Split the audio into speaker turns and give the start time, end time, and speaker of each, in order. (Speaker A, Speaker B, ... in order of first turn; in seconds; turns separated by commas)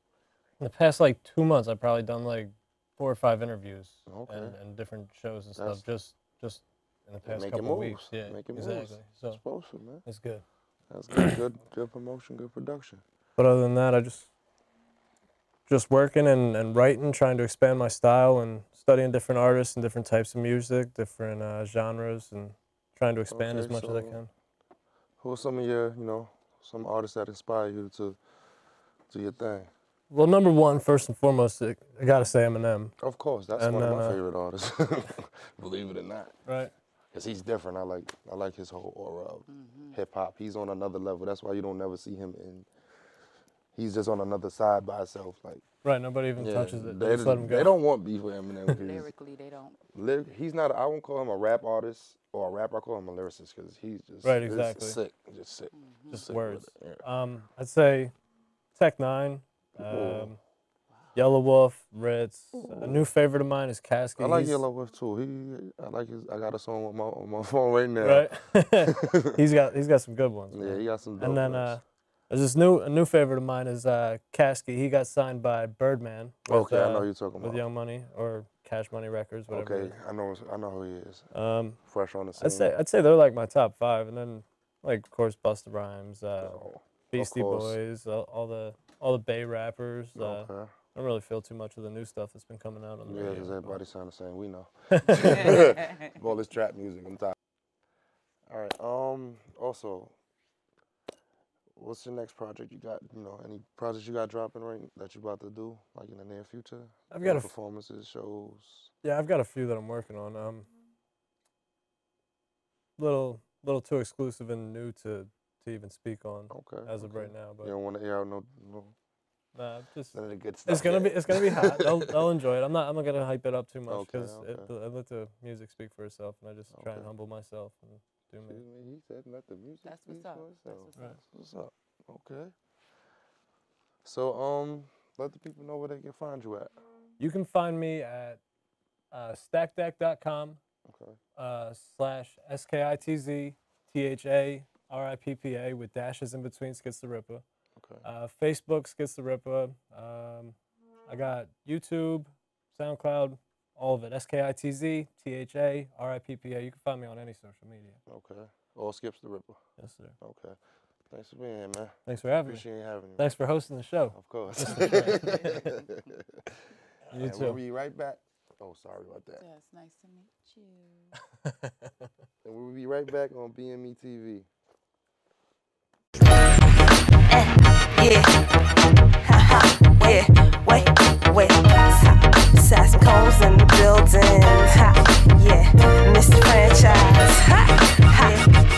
Speaker A: 0.6-9.4, Speaker B: 4.1-4.6, Speaker B: 5.6-5.8, Speaker B: 7.2-10.1, Speaker A: 10.1-10.4, Speaker B: 10.9-13.0, Speaker A: 13.4-14.3, Speaker A: 15.7-24.3, Speaker B: 23.3-24.2, Speaker B: 25.2-28.2, Speaker B: 29.1-29.7, Speaker A: 30.1-32.9, Speaker B: 33.0-36.3, Speaker A: 33.6-34.2, Speaker A: 36.5-36.7, Speaker B: 37.1-42.7, Speaker C: 39.5-40.0, Speaker B: 43.8-45.6, Speaker A: 45.8-47.8, Speaker B: 46.4-49.1, Speaker C: 48.8-49.8, Speaker B: 49.9-57.0, Speaker A: 54.2-55.0, Speaker C: 55.7-56.3, Speaker A: 56.1-58.1, Speaker A: 58.8-60.4, Speaker B: 59.8-60.3, Speaker C: 60.9-61.2, Speaker A: 61.1-64.6, Speaker B: 62.6-63.0, Speaker B: 64.2-69.4, Speaker A: 68.0-79.9, Speaker B: 70.5-71.8, Speaker B: 76.5-77.7, Speaker B: 79.5-81.3, Speaker A: 81.3-81.8, Speaker B: 81.8-82.7, Speaker A: 82.4-86.6, Speaker B: 86.4-87.8, Speaker A: 87.1-93.8, Speaker B: 90.2-90.7, Speaker B: 93.1-97.3, Speaker A: 95.0-95.6, Speaker C: 95.5-96.1, Speaker B: 98.5-100.1, Speaker B: 101.8-108.9, Speaker A: 107.1-107.5, Speaker A: 109.0-110.7, Speaker A: 113.0-117.7, Speaker B: 116.5-118.9, Speaker A: 119.5-120.2, Speaker B: 120.1-122.2, Speaker A: 120.7-128.6, Speaker B: 123.9-124.7, Speaker B: 126.7-127.1, Speaker B: 128.4-132.5, Speaker C: 129.8-131.2, Speaker B: 134.0-136.7, Speaker A: 137.2-138.4, Speaker A: 139.1-140.6, Speaker B: 140.9-141.2, Speaker A: 141.4-147.4, Speaker B: 147.8-148.1, Speaker A: 148.0-150.6, Speaker A: 151.1-158.0, Speaker B: 158.1-159.6, Speaker A: 159.8-160.2, Speaker B: 160.2-160.6, Speaker B: 161.1-163.3, Speaker A: 162.1-162.7, Speaker A: 163.2-165.8, Speaker B: 164.1-166.2, Speaker B: 167.1-169.4, Speaker A: 167.1-167.6, Speaker C: 169.4-171.1, Speaker B: 172.4-174.5, Speaker D: 177.3-178.3, Speaker D: 179.2-188.5